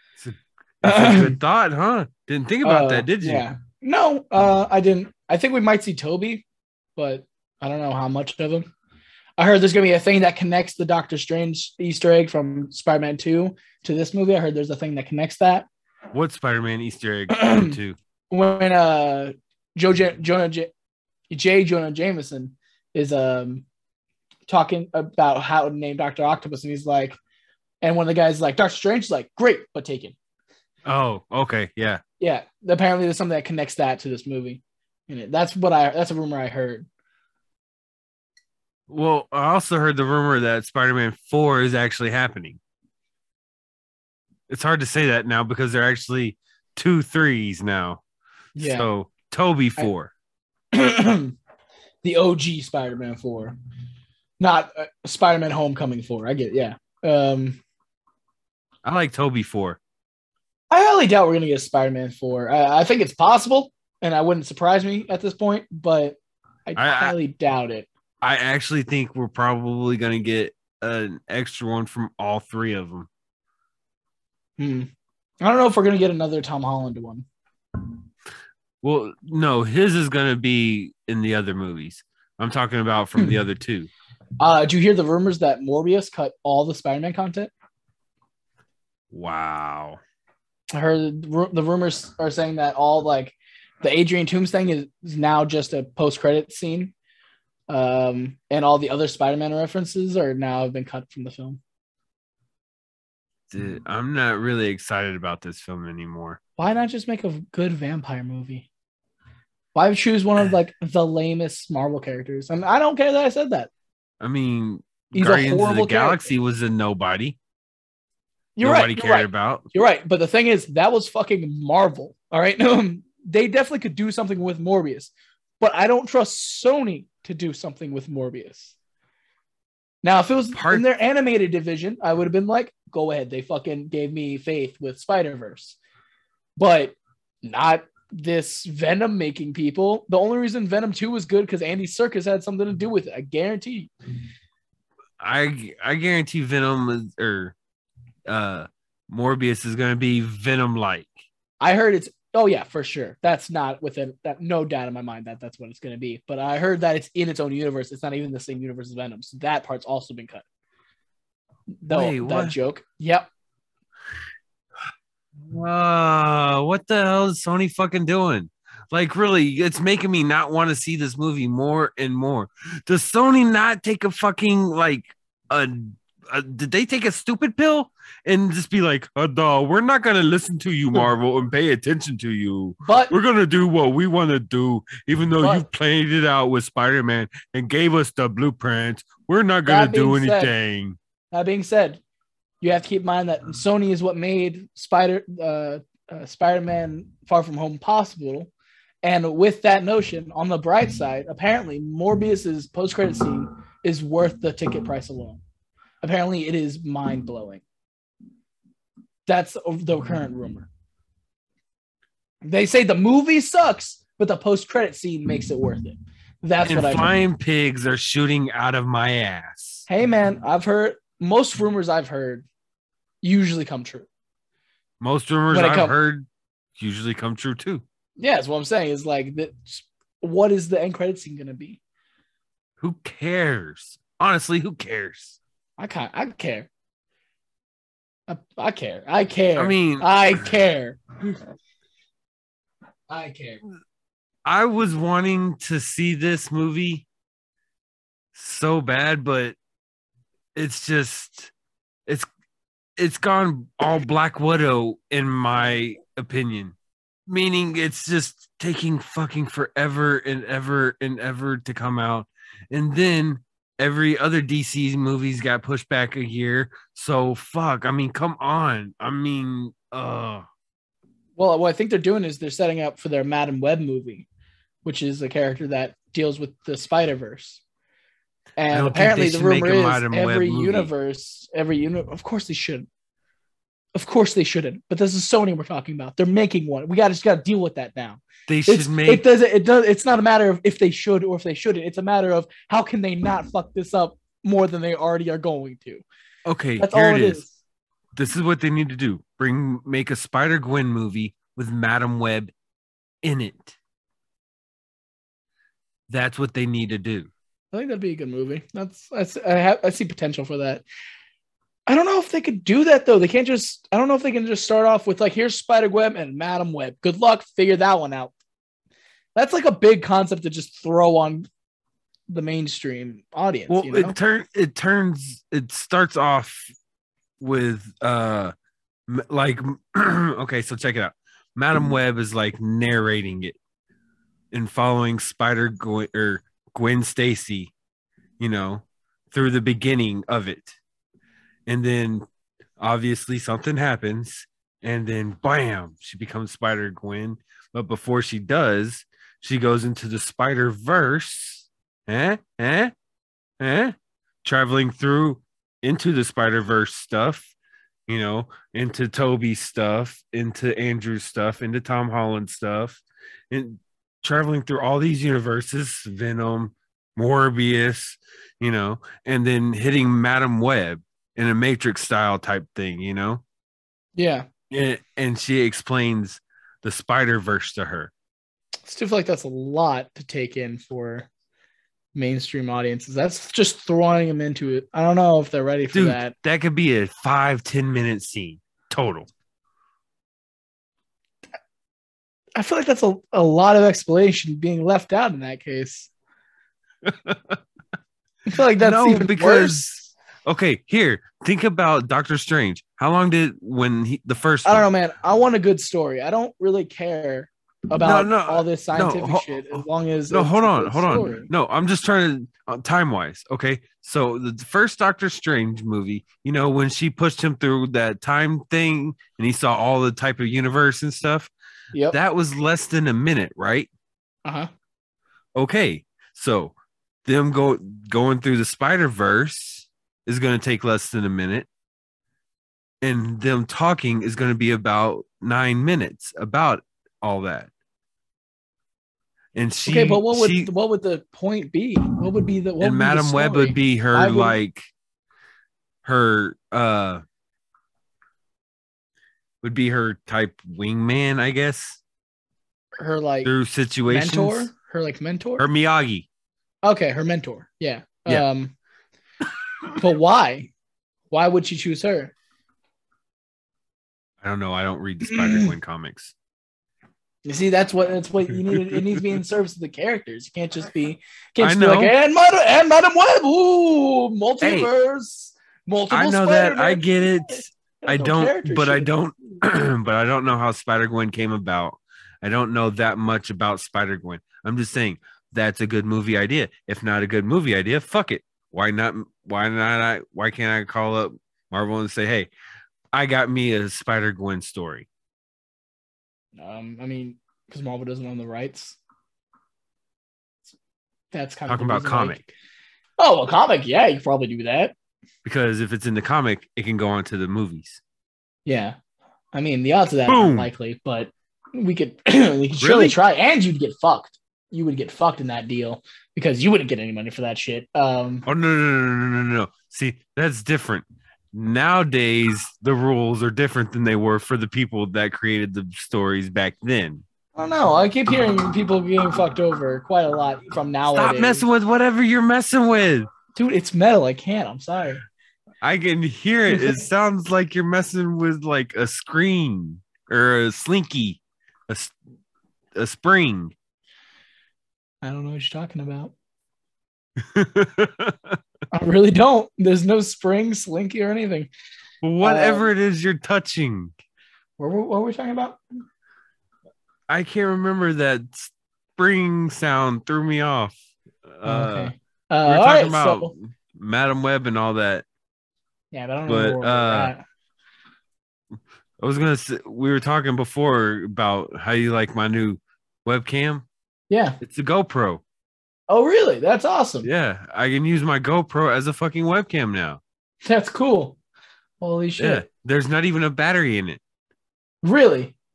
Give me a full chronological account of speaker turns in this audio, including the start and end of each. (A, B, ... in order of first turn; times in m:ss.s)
0:00.2-0:03.4 A
0:00.8-0:01.4 B
0:02.6-0:06.4 B
0:07.0-0:08.7 B
0:09.4-0:15.7 B
0:16.1-0:18.0 A
0:17.3-0:17.8 B
0:18.3-0:20.7 B
0:21.3-0:23.6 B
0:24.5-0:27.2 B
0:27.8-0:30.1 B
0:30.8-0:32.0 A
0:32.2-0:36.9 B
0:38.9-0:42.6 A
0:44.5-0:48.0 A
0:48.5-0:48.9 B
0:48.6-0:50.1 A
0:50.7-0:51.3 B
0:52.0-0:53.6 B
0:54.4-0:57.6 B
0:58.8-0:59.8 A
1:00.7-1:07.9 B
1:06.8-1:07.2 A
1:08.2-1:13.1 A
1:14.6-1:14.9 B
1:15.4-1:17.3 B
1:18.8-1:23.9 A
1:24.4-1:27.5 B
1:29.1-1:30.0 A
1:30.7-1:36.9 B
1:37.7-1:41.6 B
1:43.5-1:46.4 A
1:46.6-1:48.7 B
1:49.7-1:53.7 B
1:54.2-1:57.4 A
1:55.1-1:56.3 B
1:58.6-2:08.7 B
1:58.6-1:59.6 A
2:10.0-2:15.8 B
2:10.5-2:10.8 A
2:16.6-2:23.9 B
2:25.2-2:27.5 A
2:28.3-2:31.1 A
2:31.6-2:40.4 B
2:41.8-2:43.3 B
2:41.9-2:42.5 A
2:45.4-3:11.0 A
3:02.8-3:03.1 B
3:05.4-3:05.6 B
3:09.6-3:10.5 B
3:11.3-3:12.0 B
3:12.6-3:18.5 B
3:19.0-3:25.4 B
3:26.0-3:27.6 B
3:29.3-3:30.7 B
3:32.4-3:37.1 B
3:36.6-3:39.8 A
3:39.9-3:42.4 B
3:43.2-3:44.1 B
3:45.0-3:47.8 A
3:45.5-3:46.0 B
3:48.2-3:51.8 B
3:52.8-3:55.4 A
3:55.8-3:56.7 B
3:58.3-4:01.3 B
3:59.6-4:00.4 A
4:03.1-4:03.6 B
4:04.4-4:07.0 A
4:08.3-4:09.6 A
4:10.5-4:11.5 A
4:13.0-4:16.7 A
4:17.3-4:30.4 A
4:31.4-4:34.3 B
4:34.8-4:37.6 B
4:38.6-4:42.9 B
4:38.7-4:40.9 A
4:43.9-4:56.0 B
4:48.5-4:49.2 A
4:56.4-4:57.5 A
4:56.8-4:57.5 B
4:58.1-5:02.5 A
5:03.2-5:03.8 A
5:06.1-5:07.3 A
5:07.7-5:10.8 B
5:11.9-5:18.3 B
5:19.3-5:21.5 B
5:22.3-5:24.2 B
5:23.7-5:26.6 A
5:27.4-5:28.5 A
5:29.1-5:33.6 A
5:34.5-5:37.7 A
5:38.4-5:40.8 A
5:41.7-5:42.2 A
5:42.8-5:52.9 A
5:53.6-5:57.5 A
5:58.1-6:13.4 A
6:14.2-6:14.4 B
6:14.7-6:18.1 A
6:18.8-6:21.3 B
6:22.1-6:26.3 B
6:25.9-6:29.3 A
6:32.5-6:36.1 B
6:37.0-6:37.6 A
6:38.5-6:39.8 B
6:38.8-6:44.9 A
6:44.6-6:51.5 B
6:48.0-7:01.5 A
7:01.9-7:02.2 B
7:02.1-7:03.9 A
7:04.4-7:04.7 B
7:05.5-7:06.7 A
7:07.2-7:11.7 A
7:13.0-7:17.7 A
7:19.5-7:20.7 A
7:19.8-7:24.6 B
7:22.8-7:24.8 A
7:26.0-7:27.2 A
7:29.6-7:32.0 A
7:33.0-7:33.5 B
7:33.4-7:34.7 A
7:34.1-7:35.6 B
7:35.6-7:36.3 A
7:36.8-7:38.7 B
7:40.0-7:40.7 B
7:41.3-7:42.3 B
7:44.4-7:46.3 A
7:45.3-7:45.7 B
7:47.4-7:59.1 B
7:51.6-7:52.1 A
7:54.6-7:54.9 A
7:56.1-8:12.5 A
8:13.1-8:15.1 A
8:16.6-8:19.0 B
8:21.3-8:22.5 B
8:21.7-8:22.4 A
8:23.2-8:24.9 B
8:25.4-8:28.0 A
8:28.6-8:29.0 B
8:29.5-8:38.4 B
8:30.3-8:30.7 A
8:32.8-8:33.2 A
8:38.4-8:47.2 A
8:47.6-8:51.6 B
8:51.0-8:53.3 A
8:53.5-8:55.2 B
8:55.8-9:02.1 A
8:56.7-8:57.0 B
9:02.9-9:03.7 A
9:05.2-9:06.3 B
9:07.4-9:08.6 A
9:08.9-9:11.7 B
9:12.2-9:14.1 A
9:12.4-9:12.9 B
9:14.8-9:15.8 B
9:17.3-9:22.1 A
9:21.6-9:23.5 B
9:22.6-9:25.2 A
9:26.1-9:27.4 B
9:26.5-9:27.3 A
9:29.2-9:33.8 A
9:34.3-9:34.6 B
9:34.6-9:35.4 A
9:36.1-9:37.3 B
9:37.2-9:40.2 A
9:40.6-9:41.4 B
9:42.0-9:42.6 B
9:42.4-9:44.2 A
9:45.0-9:45.5 B